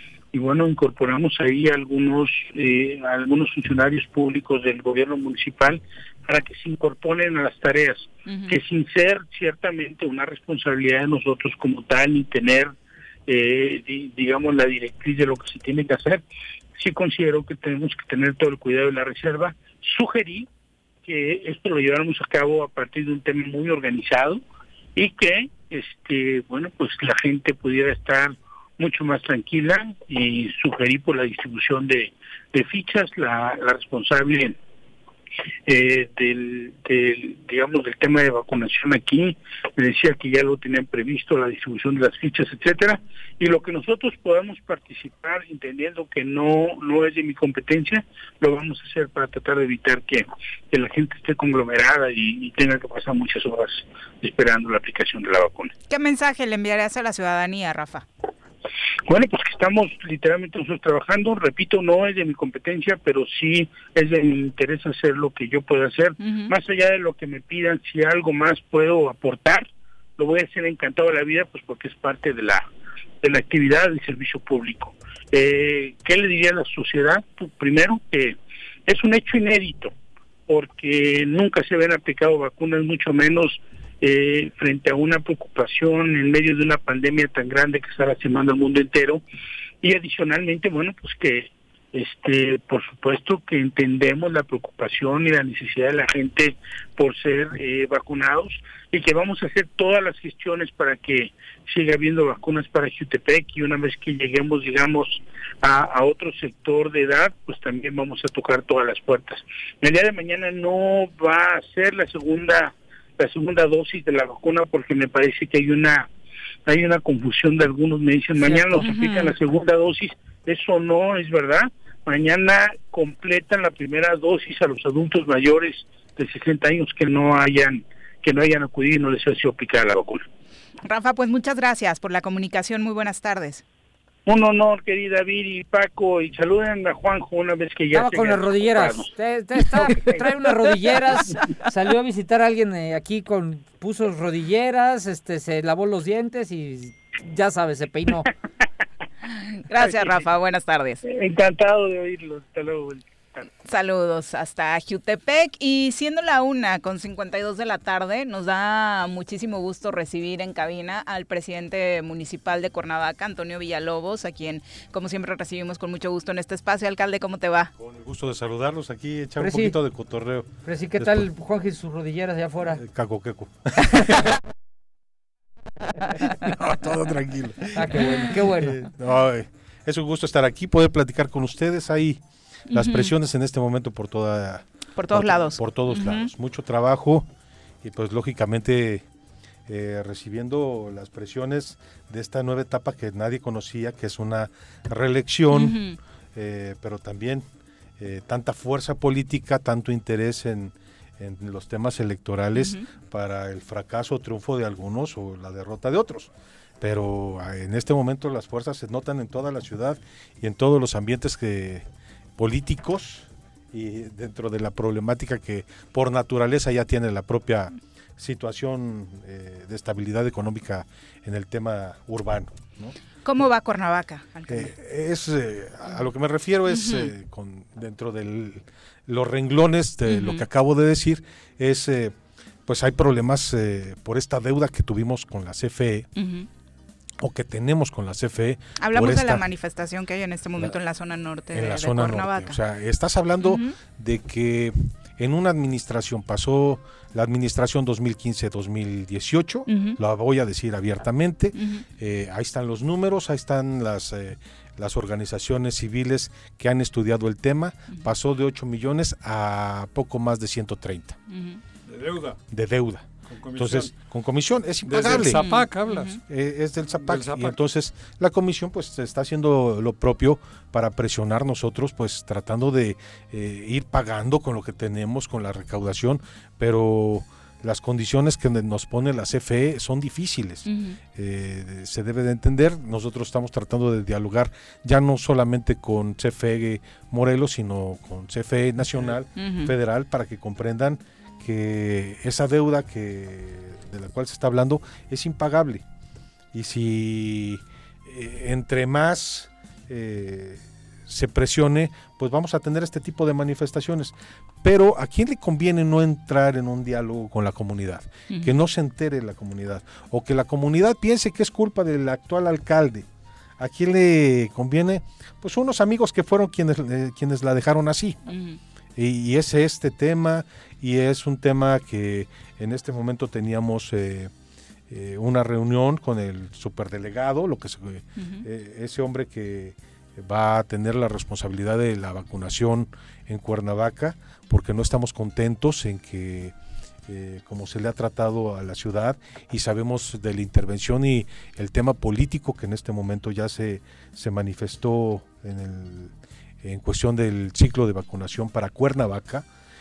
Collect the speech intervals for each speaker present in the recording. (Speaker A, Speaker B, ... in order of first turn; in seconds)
Speaker A: 0.3-12.8, 13.3-16.2, 16.8-20.5, 21.1-24.4, 25.0-34.6, 35.7-55.7, 59.1-72.7, 73.2-79.9, 80.5-89.2, 89.8-116.1, 116.7-130.2, 134.3-139.1, 139.8-140.2, 149.8-150.3, 151.0-153.5
Speaker B: 8.3-8.6, 55.9-58.1, 66.2-66.5, 118.5-119.3, 130.8-133.6, 149.3-151.0, 153.7-167.7, 182.7-183.1, 185.0-186.3, 195.5-196.0, 202.6-202.8, 223.2-224.7, 226.7-227.1, 230.1-230.4, 236.2-236.5, 238.8-242.6, 243.4-243.7, 249.7-250.0, 251.6-251.8, 261.3-261.6, 265.4-266.2, 280.7-281.0, 289.4-289.7, 308.3-308.6, 318.3-318.6, 328.2-328.5
Speaker C: 137.9-148.3, 169.4-169.8, 170.7-172.8, 177.8-178.8
Speaker D: 167.8-171.3, 172.8-174.2, 176.5-182.2, 182.7-187.3, 187.8-189.0, 189.7-195.8, 196.3-197.4, 198.0-211.8, 212.4-222.9, 224.5-232.1, 232.7-236.1, 237.2-239.4, 241.5-261.2, 262.5-265.4, 266.3-295.8, 296.5-313.1, 313.6-318.2, 319.0-324.3, 324.9-336.5, 337.1-346.1, 346.6-349.4
Speaker E: 261.9-262.4, 263.3-263.9, 264.9-266.2, 266.9-267.6